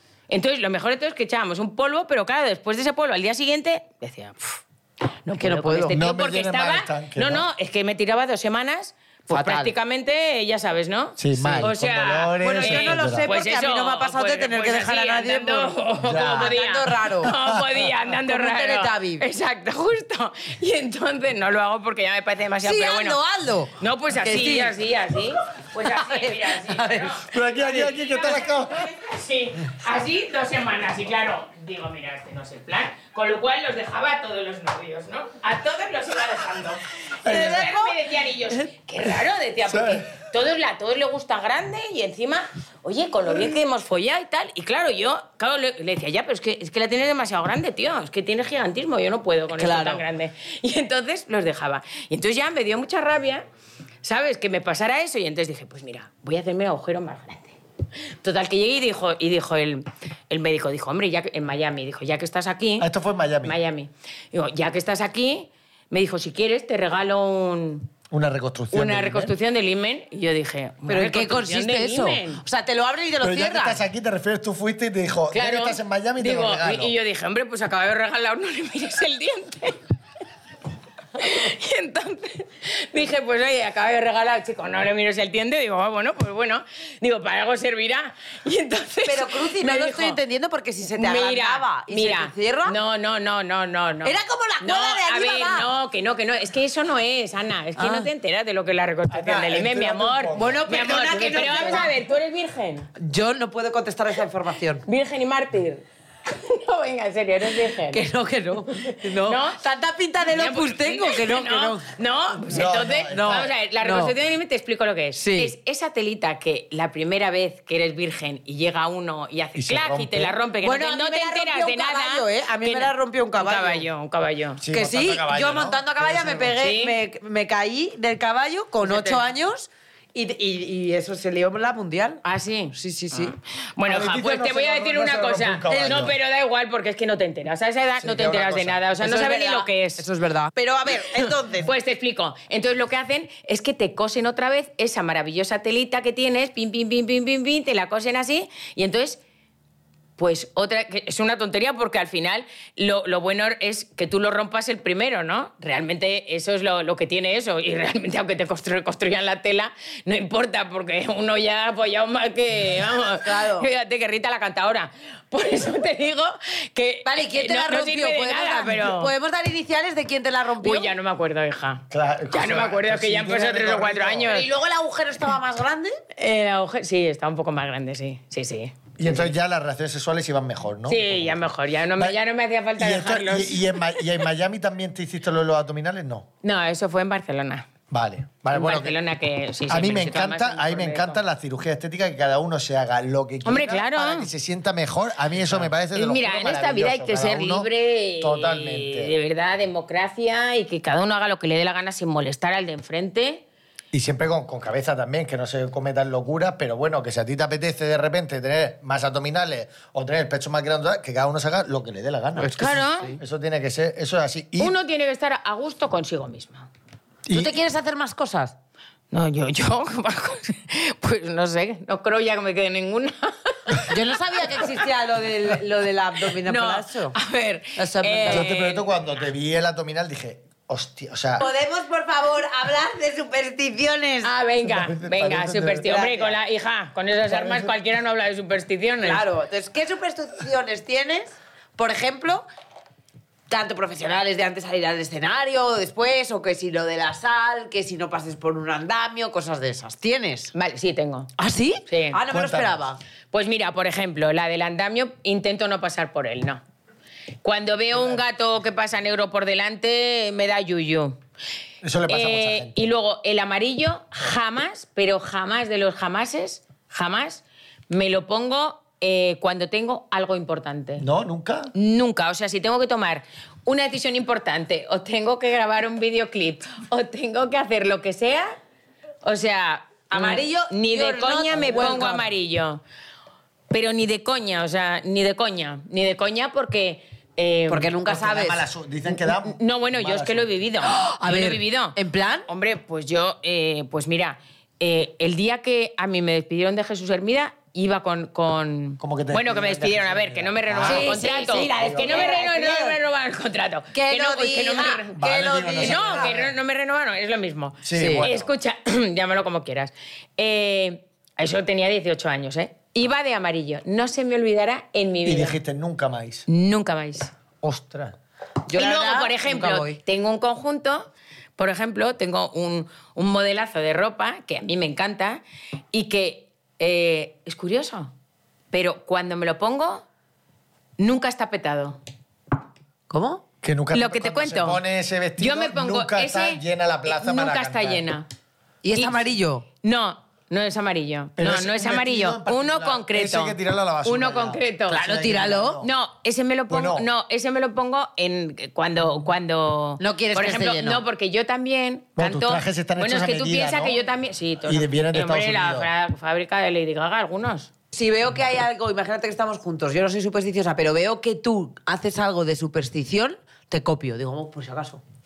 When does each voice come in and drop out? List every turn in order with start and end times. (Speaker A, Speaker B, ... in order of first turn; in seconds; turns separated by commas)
Speaker A: 0.3-4.6, Speaker A: 5.2-23.2, Speaker B: 5.3-6.0, Speaker C: 5.9-7.5, Speaker B: 9.3-9.7, Speaker C: 11.2-13.3, Speaker B: 11.3-11.7, Speaker B: 12.4-17.3, Speaker C: 16.0-16.5, Speaker C: 17.4-17.7, Speaker B: 18.2-19.2, Speaker B: 22.6-24.8, Speaker A: 23.8-53.4, Speaker B: 25.8-27.2, Speaker C: 27.2-28.9, Speaker B: 37.2-38.0, Speaker C: 39.7-40.0, Speaker B: 49.6-50.0, Speaker A: 54.0-57.5, Speaker A: 58.2-62.9, Speaker C: 62.8-63.6, Speaker A: 63.4-67.9, Speaker C: 68.1-69.3, Speaker A: 68.7-72.4, Speaker B: 70.9-73.8, Speaker C: 73.2-76.9, Speaker A: 75.3-79.8, Speaker A: 81.2-90.2, Speaker B: 89.0-92.8, Speaker A: 90.9-102.9, Speaker B: 94.0-95.7, Speaker B: 97.8-98.1, Speaker C: 99.1-101.9, Speaker B: 100.3-101.9, Speaker B: 103.0-104.8, Speaker A: 104.8-108.1, Speaker B: 107.9-111.9, Speaker A: 108.8-109.6, Speaker A: 110.3-124.6, Speaker C: 112.5-113.5, Speaker B: 113.1-114.1, Speaker B: 115.2-115.5, Speaker C: 119.5-120.4, Speaker B: 120.6-123.9, Speaker C: 124.6-126.6, Speaker B: 124.7-133.3, Speaker A: 126.6-127.0, Speaker A: 128.8-129.2, Speaker A: 132.2-140.0, Speaker C: 133.8-136.2, Speaker C: 138.0-138.8, Speaker B: 139.0-141.7, Speaker A: 141.6-149.2, Speaker A: 150.2-169.1, Speaker B: 163.1-163.7, Speaker B: 167.0-170.9, Speaker A: 170.6-174.5, Speaker C: 171.9-174.4, Speaker B: 174.3-176.0, Speaker A: 176.2-178.9, Speaker C: 179.0-181.4, Speaker A: 180.9-184.0, Speaker C: 182.8-186.3, Speaker A: 186.4-187.7, Speaker C: 187.9-189.0, Speaker A: 188.5-191.2, Speaker C: 189.7-197.7, Speaker A: 193.4-194.3, Speaker A: 195.9-203.4, Speaker C: 198.2-199.1, Speaker C: 203.9-214.7, Speaker B: 212.4-213.2, Speaker A: 212.6-213.1, Speaker A: 214.6-216.7, Speaker C: 217.2-217.5, Speaker B: 217.3-218.6, Speaker A: 219.1-224.8, Speaker B: 223.9-227.1, Speaker A: 226.4-228.9, Speaker B: 227.8-228.5, Speaker C: 228.3-231.4, Speaker B: 231.4-234.3, Speaker A: 234.2-239.2, Speaker C: 234.6-235.9, Speaker B: 235.8-236.3, Speaker C: 237.3-237.7, Speaker B: 239.0-242.4, Speaker B: 243.5-250.5, Speaker A: 250.5-251.3, Speaker B: 251.4-253.0, Speaker A: 251.9-252.2, Speaker C: 252.3-252.8, Speaker A: 253.3-256.6, Speaker A: 257.4-261.2, Speaker C: 261.8-262.8, Speaker A: 262.1-271.0, Speaker C: 271.0-271.7, Speaker A: 271.7-278.5, Speaker A: 279.2-282.8, Speaker B: 280.1-282.3, Speaker A: 283.7-287.9, Speaker B: 287.7-288.6, Speaker C: 288.1-290.5, Speaker A: 289.2-292.0, Speaker B: 290.8-292.5, Speaker A: 292.5-305.2, Speaker C: 299.0-302.3, Speaker B: 300.8-303.0, Speaker B: 303.9-306.3, Speaker C: 305.1-306.5, Speaker A: 305.8-315.6, Speaker C: 307.8-308.5, Speaker B: 307.9-308.3, Speaker C: 315.2-316.4, Speaker A: 316.5-317.3, Speaker C: 317.6-318.1, Speaker B: 318.6-320.0, Speaker A: 318.7-325.4, Speaker A: 325.9-328.1, Speaker A: 328.7-330.0, Speaker A: 331.0-332.0, Speaker B: 333.1-333.4, Speaker C: 333.6-338.0, Speaker A: 333.9-334.8, Speaker A: 335.4-338.2, Speaker B: 338.8-339.6, Speaker A: 339.8-345.1, Speaker C: 341.4-345.9, Speaker B: 344.9-345.8, Speaker A: 345.8-357.7, Speaker C: 346.7-347.1, Speaker B: 350.0-351.0, Speaker C: 352.1-354.0, Speaker C: 354.6-355.9, Speaker B: 357.9-365.0